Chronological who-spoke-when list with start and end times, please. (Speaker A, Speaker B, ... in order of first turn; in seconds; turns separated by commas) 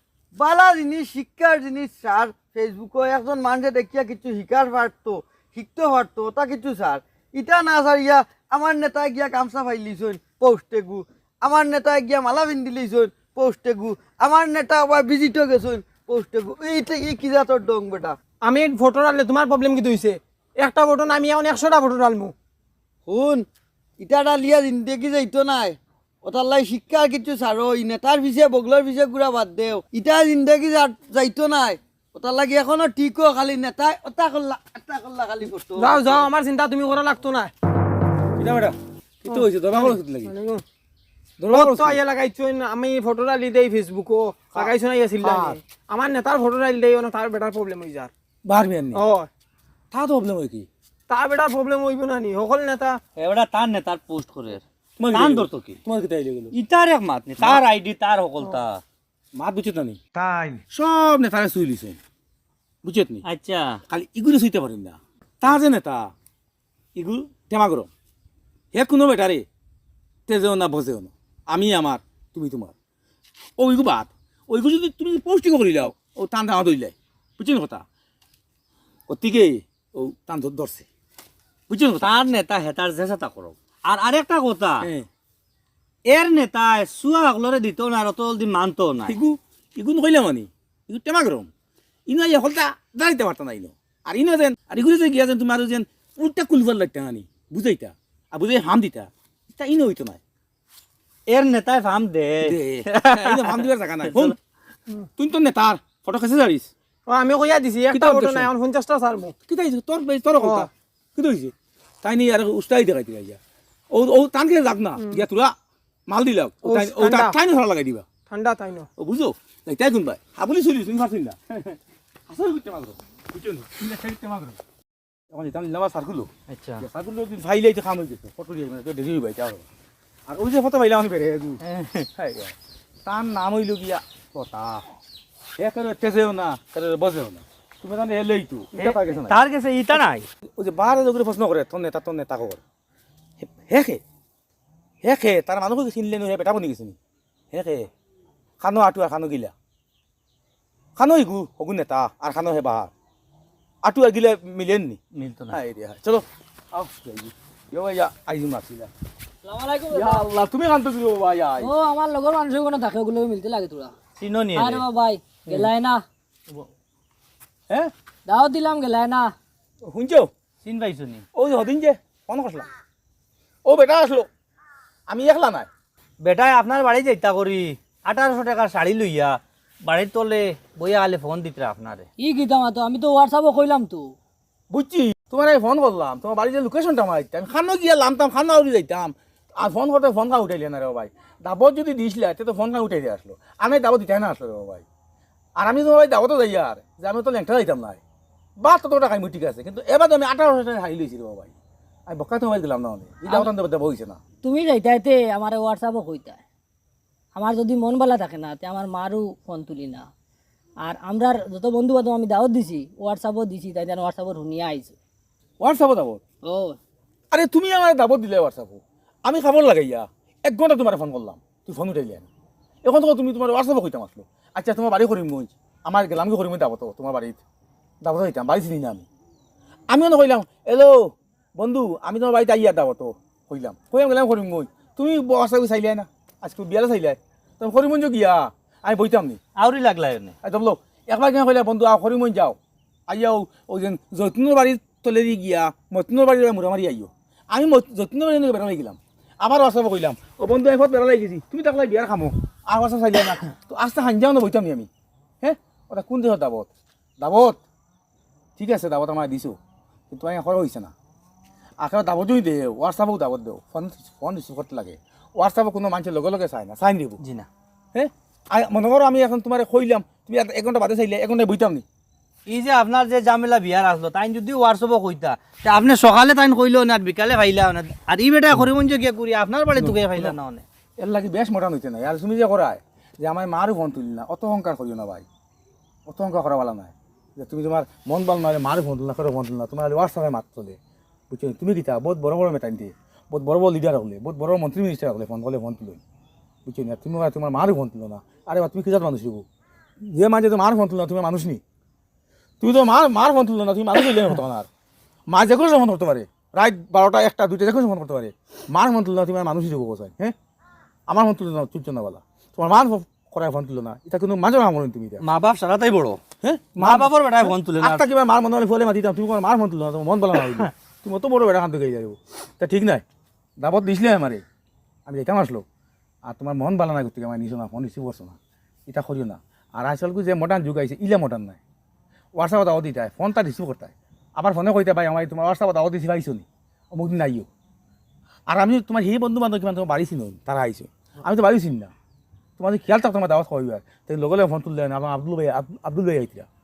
Speaker A: 0.3-18.2, Speaker B: 18.4-22.3, Speaker A: 23.1-23.4, Speaker A: 24.0-36.2, Speaker B: 35.7-37.5, Speaker C: 38.4-40.3, Speaker B: 39.3-40.6, Speaker C: 41.4-42.0, Speaker B: 41.5-48.1, Speaker C: 44.5-45.6, Speaker C: 48.4-49.0, Speaker B: 48.9-49.3, Speaker C: 49.9-50.7, Speaker B: 51.1-53.0, Speaker D: 53.2-55.8, Speaker C: 55.0-56.5, Speaker D: 56.5-58.8, Speaker C: 59.3-62.0, Speaker C: 62.8-63.2, Speaker D: 63.2-63.8, Speaker C: 63.9-66.1, Speaker D: 67.0-67.3, Speaker C: 67.3-67.9, Speaker C: 68.7-69.5, Speaker C: 70.3-72.7, Speaker C: 73.6-77.8, Speaker C: 79.1-80.8, Speaker C: 81.7-82.1, Speaker D: 82.0-84.9, Speaker C: 84.8-85.1, Speaker D: 86.1-89.2, Speaker C: 89.0-91.5, Speaker C: 92.1-100.2, Speaker D: 101.3-104.3, Speaker C: 102.4-104.3, Speaker C: 105.2-106.7, Speaker B: 107.1-109.3, Speaker C: 107.9-108.5, Speaker C: 109.5-113.4, Speaker B: 110.4-110.7, Speaker C: 113.9-115.5, Speaker C: 116.1-118.1, Speaker B: 116.6-117.3, Speaker B: 118.2-118.9, Speaker C: 119.0-121.8, Speaker C: 122.3-124.6, Speaker C: 125.3-126.3, Speaker D: 126.5-126.8, Speaker C: 126.8-129.6, Speaker C: 130.3-131.6, Speaker D: 131.6-132.1, Speaker C: 132.2-132.5, Speaker C: 133.0-134.8, Speaker C: 135.6-139.4, Speaker D: 138.7-140.3, Speaker C: 140.6-142.6, Speaker C: 143.4-144.0, Speaker C: 145.0-147.0, Speaker C: 147.5-147.9, Speaker C: 148.6-149.5, Speaker C: 150.9-152.9, Speaker C: 153.8-155.0, Speaker D: 155.1-155.6, Speaker C: 155.5-158.9, Speaker E: 159.4-160.3, Speaker C: 159.9-161.7, Speaker E: 161.6-163.9, Speaker D: 164.2-164.8, Speaker E: 164.6-166.0, Speaker E: 168.2-169.3, Speaker C: 169.8-170.3, Speaker D: 170.6-171.2, Speaker C: 171.3-172.7, Speaker C: 173.6-174.3, Speaker C: 175.1-175.7, Speaker D: 176.2-182.1, Speaker E: 182.2-184.1, Speaker C: 184.7-194.8, Speaker C: 195.6-198.0, Speaker C: 198.6-201.5, Speaker C: 202.1-204.2, Speaker E: 204.4-206.4, Speaker E: 207.3-210.1, Speaker E: 210.8-214.9, Speaker C: 215.6-216.2, Speaker E: 216.4-216.8, Speaker C: 217.3-222.3, Speaker C: 222.8-227.4, Speaker C: 228.0-229.1, Speaker C: 229.9-239.4, Speaker D: 239.6-240.3, Speaker C: 240.4-242.6, Speaker C: 243.1-254.9, Speaker C: 255.4-256.7, Speaker C: 257.2-257.6, Speaker C: 258.6-259.6, Speaker C: 260.1-260.9, Speaker C: 261.8-267.2, Speaker D: 267.2-267.5, Speaker C: 267.9-271.8, Speaker D: 272.5-280.6, Speaker C: 279.8-280.4, Speaker C: 281.0-285.2, Speaker C: 286.1-290.8, Speaker C: 291.3-296.0, Speaker C: 296.6-299.4, Speaker C: 300.0-301.6, Speaker C: 302.6-304.7, Speaker C: 305.3-310.3, Speaker C: 311.1-315.2, Speaker D: 315.2-316.2, Speaker C: 316.4-323.0, Speaker D: 316.8-318.0, Speaker D: 320.3-320.7, Speaker C: 323.6-324.4, Speaker C: 325.1-325.6, Speaker C: 326.2-331.6, Speaker C: 332.4-337.5, Speaker C: 338.5-341.9, Speaker C: 342.6-346.5